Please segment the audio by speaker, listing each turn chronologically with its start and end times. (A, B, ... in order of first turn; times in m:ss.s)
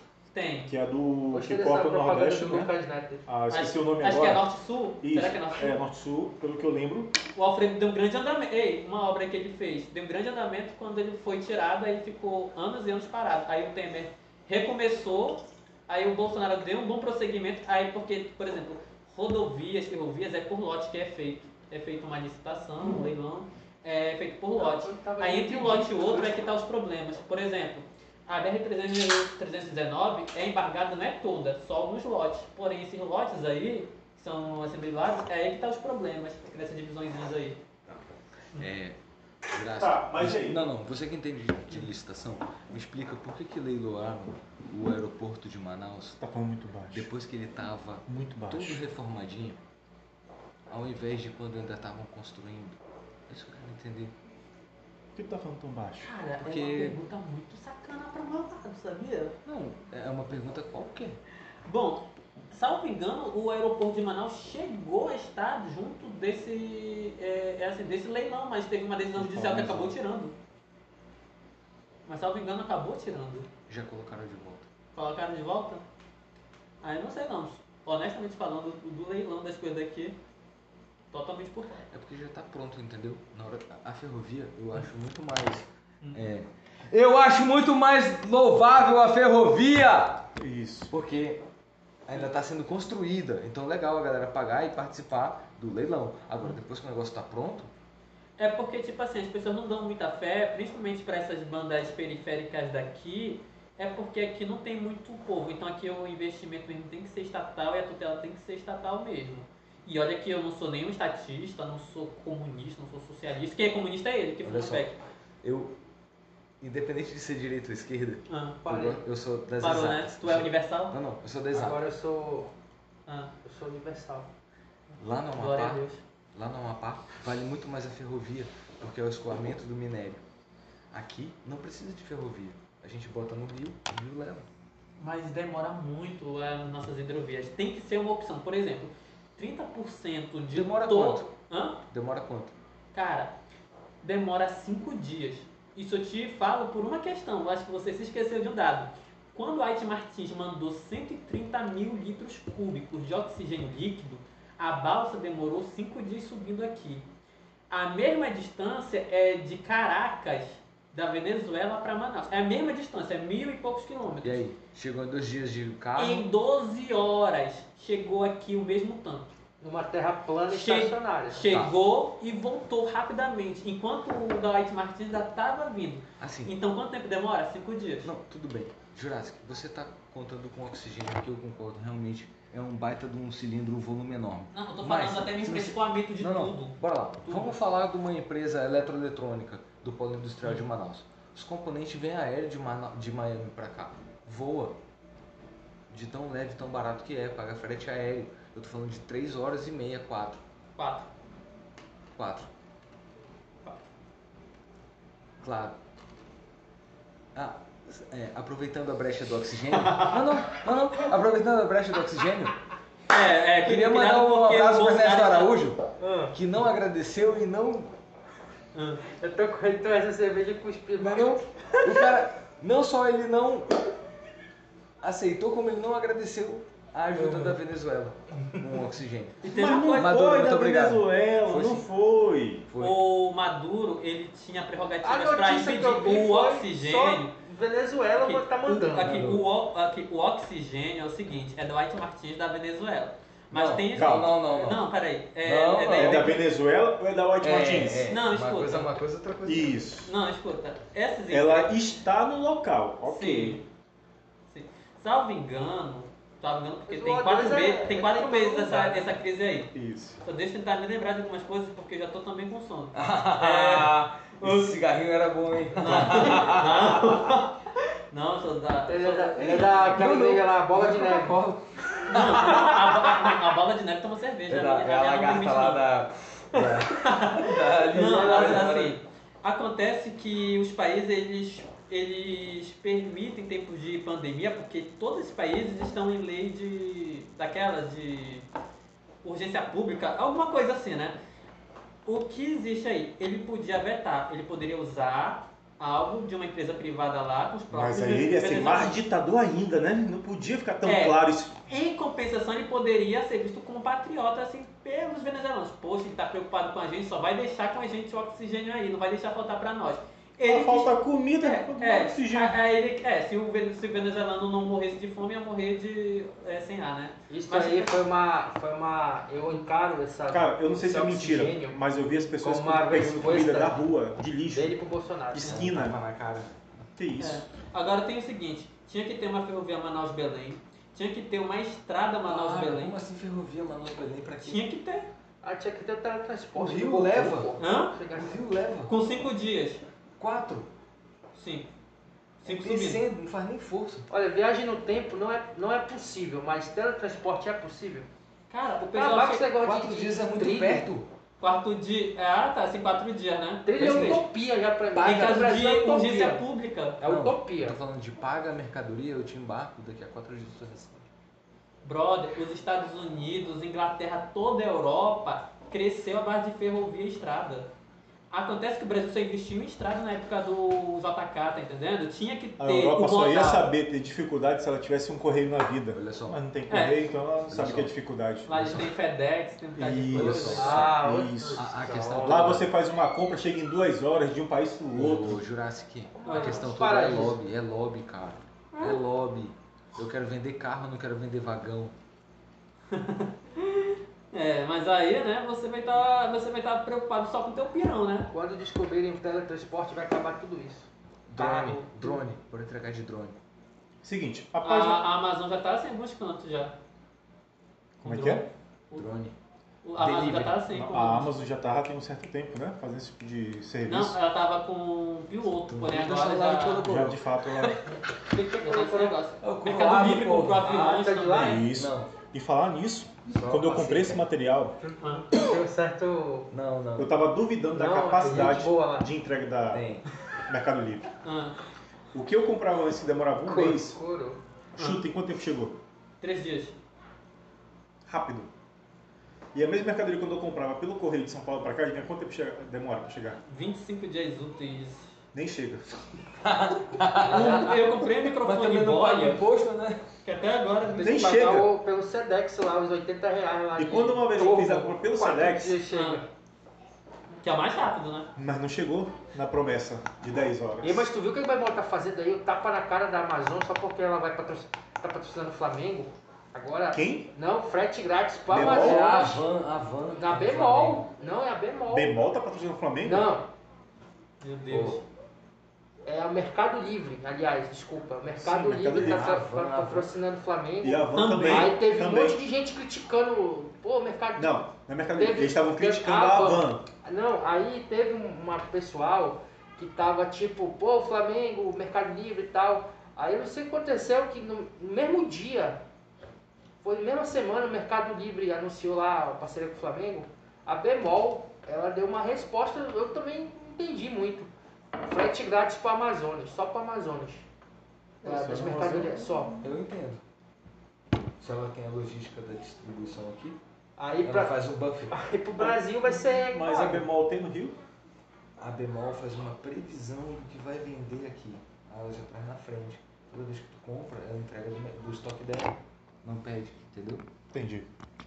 0:00.3-0:00.7 A
0:00.7-0:02.7 B
0:01.3-0:03.2 C
0:03.3-0:04.5 B
0:03.5-0:05.8 A
0:05.0-0:07.1 B
0:07.4-0:37.6 A
0:24.6-0:26.4 C
0:38.6-0:39.0 D
0:39.5-0:46.2 D
0:39.8-0:40.6 B
0:46.2-0:47.1 B
0:46.9-0:49.6 D
0:48.1-0:48.8 B
0:50.7-0:52.8 D
0:53.3-0:54.1 D
0:55.2-0:56.1 B
0:56.0-0:59.4 A
0:56.4-0:57.0 D
0:59.5-1:01.2 D
1:01.7-1:10.3 A
1:09.2-1:09.9 B
1:12.1-1:13.5 A
1:13.7-1:14.7 D
1:14.9-1:15.8 A
1:16.8-1:20.2 A
1:21.1-1:21.9 A
1:21.9-1:30.2 D
1:30.4-1:30.9 B
1:30.9-1:31.4 D
1:32.1-1:37.7 D
1:38.4-1:55.0 A
1:54.4-1:54.9 D
1:55.4-1:55.8 D
1:56.6-2:01.8 D
1:58.3-1:58.6 A
1:58.6-1:59.0 C
1:59.6-2:01.0 A
2:01.5-2:02.5 C
2:03.1-2:03.3 A
2:03.4-2:04.3 C
2:05.0-2:10.2 D
2:05.4-2:06.0 A
2:10.9-2:14.5 D
2:15.0-2:21.8 A
2:20.5-2:21.3 D
2:21.9-2:22.6 D
2:22.9-2:23.3 A
2:24.0-2:37.1 A
2:37.7-2:44.4 A
2:44.2-2:46.3 D
2:46.0-2:49.3 A
2:49.6-2:51.5 C
2:50.5-2:58.1 A
2:51.4-2:51.7 D
2:56.2-2:56.6 D
2:58.0-3:14.8 D
3:04.5-3:07.6 A
3:15.9-3:20.4 D
3:20.8-3:21.1 A
3:22.2-3:22.5 D
3:25.4-3:25.8 D
3:27.4-3:32.6 D
3:33.1-3:35.6 A
3:33.6-3:37.9 D
3:36.0-3:36.3 C
3:38.7-3:39.0 A
3:39.0-3:41.4 C
3:41.0-3:43.8 D
3:45.0-3:49.4 D
3:47.2-3:47.6 C
3:48.5-3:48.8 C
3:49.4-3:50.2 A
3:49.5-3:52.7 B
3:49.9-3:51.9 D
3:52.7-3:53.0 D
3:52.8-3:57.4 A
3:55.0-3:59.2 C
3:58.2-4:06.4 A
3:59.0-3:59.5 D
4:03.5-4:04.9 D
4:04.0-4:04.3 B
4:05.4-4:06.4 D
4:06.0-4:08.1 B
4:07.4-4:09.8 D
4:08.1-4:08.9 A
4:09.4-4:10.2 B
4:10.1-4:11.8 A
4:11.3-4:13.6 B
4:13.0-4:13.6 A
4:14.5-4:19.7 A
4:16.9-4:19.1 C
4:19.7-4:20.2 B
4:20.2-4:24.8 A
4:22.9-4:27.4 D
4:25.8-4:27.6 A
4:28.1-4:30.0 A
4:28.9-4:31.4 C
4:29.4-4:33.2 D
4:32.1-4:35.9 A
4:34.5-4:39.0 D
4:36.6-4:48.5 A
4:37.9-4:38.9 C
4:49.2-4:51.2 A
4:52.0-4:59.0 A
4:57.7-5:01.6 B
5:00.8-5:18.0 A
5:10.4-5:12.6 B
5:17.3-5:21.8 C
5:20.3-5:24.8 B
5:22.4-5:23.8 C
5:24.5-5:25.7 C
5:25.3-5:26.0 B
5:25.4-5:26.5 D
5:27.0-5:27.5 B
5:27.2-5:33.0 A
5:32.3-5:34.6 D
5:34.4-5:35.1 A
5:35.4-5:38.4 C
5:36.6-5:37.6 D
5:37.6-5:38.0 A
5:38.1-5:38.9 D
5:38.9-5:39.8 A
5:40.2-5:40.7 D
5:41.4-5:41.7 A
5:42.4-5:43.0 A
5:42.4-5:44.1 D
5:44.1-5:48.1 C
5:48.5-5:49.5 A
5:48.9-5:50.9 C
5:49.6-5:51.1 D
5:51.4-5:54.2 A
5:53.6-5:56.4 C
5:53.8-5:54.3 D
5:55.0-5:55.2 D
5:55.0-5:57.0 A
5:57.0-5:57.8 C
5:57.0-6:01.1 D
6:01.8-6:07.7 A
6:08.3-6:13.7 A
6:12.6-6:18.8 B
6:15.9-6:16.4 D
6:16.7-6:17.0 A
6:17.5-6:17.9 D
6:18.5-6:20.9 A
6:18.6-6:18.8 D
6:19.8-6:21.6 B
6:20.1-6:21.0 D
6:20.5-6:22.6 C
6:21.5-6:22.7 D
6:22.2-6:25.4 B
6:25.0-6:31.9 D
6:26.2-6:27.4 C
6:26.3-6:26.6 A
6:28.7-6:29.0 A
6:32.9-6:38.3 A
6:38.3-6:42.3 C
6:41.3-6:43.4 D
6:44.0-6:45.0 B
6:44.6-6:46.8 A
6:48.0-6:48.4 B
6:48.0-6:49.1 A
6:48.9-6:49.4 D
6:49.8-6:51.3 A
6:50.0-6:50.6 D
6:50.7-6:54.2 B
6:53.9-6:56.9 A
6:55.6-6:57.8 D
6:56.8-6:57.8 B
6:58.3-6:59.2 C
6:58.6-7:01.6 A
6:59.4-7:00.7 D
7:00.6-7:01.6 C
7:01.4-7:04.8 B
7:01.7-7:02.1 D
7:03.3-7:04.2 D
7:04.8-7:06.5 C
7:05.0-7:05.3 A
7:06.5-7:07.2 D
7:07.0-7:09.9 B
7:07.7-7:09.1 C
7:08.3-7:08.6 D
7:09.7-7:10.1 D
7:10.5-7:11.1 B
7:11.2-7:11.6 A
7:12.1-7:14.0 B
7:13.5-7:14.4 C
7:14.8-7:15.0 A
7:14.8-7:15.8 B
7:16.2-7:16.8 A
7:18.1-7:18.5 B
7:19.5-7:23.4 B
7:23.5-7:25.2 A
7:25.3-7:26.0 B
7:26.4-7:30.0 D
7:27.2-7:29.4 A
7:30.2-7:31.3 A
7:31.0-7:36.3 C
7:31.0-7:31.7 B
7:33.8-7:35.8 B
7:35.9-7:36.2 A
7:37.4-7:38.3 A
7:38.4-7:41.1 B
7:40.8-7:49.5 C
7:46.9-7:47.3 B
7:48.5-7:49.1 B
7:48.5-7:51.0 D
7:50.1-7:52.2 C
7:51.9-7:53.3 B
7:53.0-7:53.5 C
7:54.4-7:55.0 A
7:54.7-7:55.0 D
7:56.0-8:04.6 C
7:58.4-7:59.3 B
7:58.9-8:00.1 D
8:00.8-8:02.4 B
8:01.2-8:01.8 A
8:04.4-8:06.8 B
8:05.2-8:15.8 C
8:16.8-8:24.5 C
8:25.0-8:27.5 C
8:28.2-8:29.3 B
8:28.2-8:29.6 C
8:29.6-8:30.2 D
8:31.4-8:33.6 D
8:34.0-8:37.1 C
8:34.2-8:35.2 D
8:35.6-8:37.8 B
8:38.6-8:47.2 D
8:47.5-8:47.9 B